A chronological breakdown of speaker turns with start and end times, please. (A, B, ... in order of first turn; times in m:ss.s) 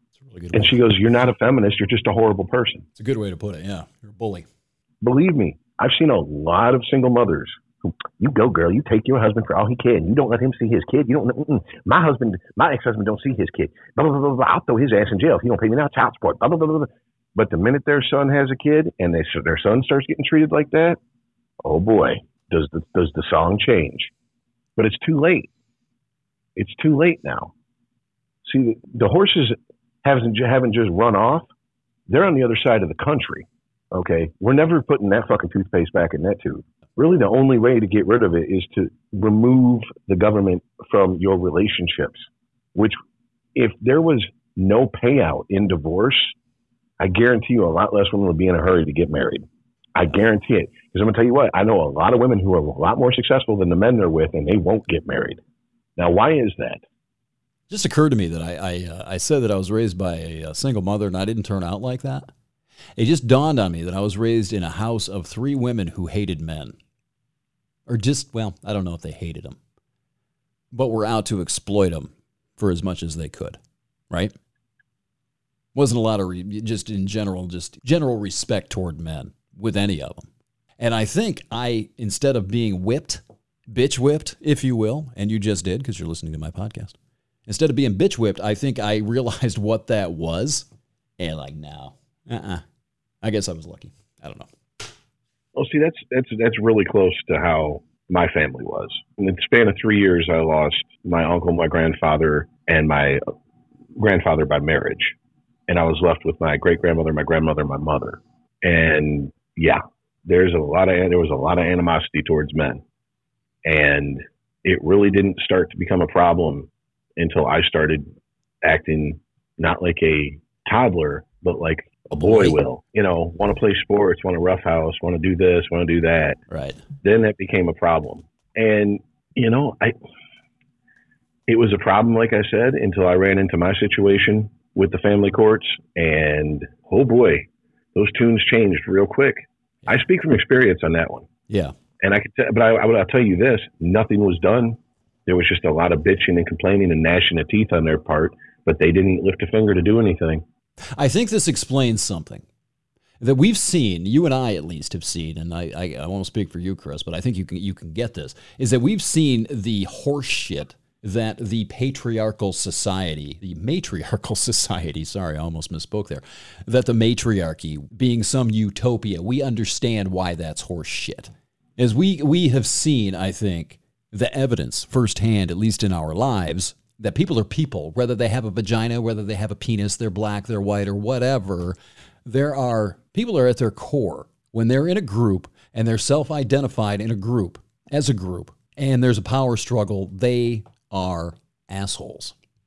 0:00.2-0:00.8 A
0:00.5-0:02.8 B
0:03.0-0:04.5 A
0:05.0-0:21.0 B
0:21.6-0:24.1 B
0:24.8-0:25.5 B
0:26.6-0:27.5 B
0:28.4-0:31.5 B
0:32.1-0:43.0 B
0:43.6-0:46.3 B
0:47.0-0:55.4 B
0:56.0-0:56.8 B
0:57.7-1:02.3 A
1:03.0-1:06.8 A
1:07.9-1:09.6 A
1:10.7-1:13.6 A
1:15.8-1:20.3 A
1:20.8-1:27.0 A
1:27.5-1:30.7 A
1:31.2-1:32.6 A
1:33.2-1:34.5 A
1:35.6-1:43.2 B
1:44.0-1:45.2 B
1:45.7-1:52.8 B
1:53.6-1:58.1 B
1:58.6-2:06.4 B
2:02.1-2:02.6 A
2:06.5-2:06.8 A
2:07.0-2:10.0 B
2:11.5-2:21.3 B
2:21.5-2:21.8 A
2:22.0-2:30.4 B
2:31.0-2:32.4 A
2:33.2-3:12.4 A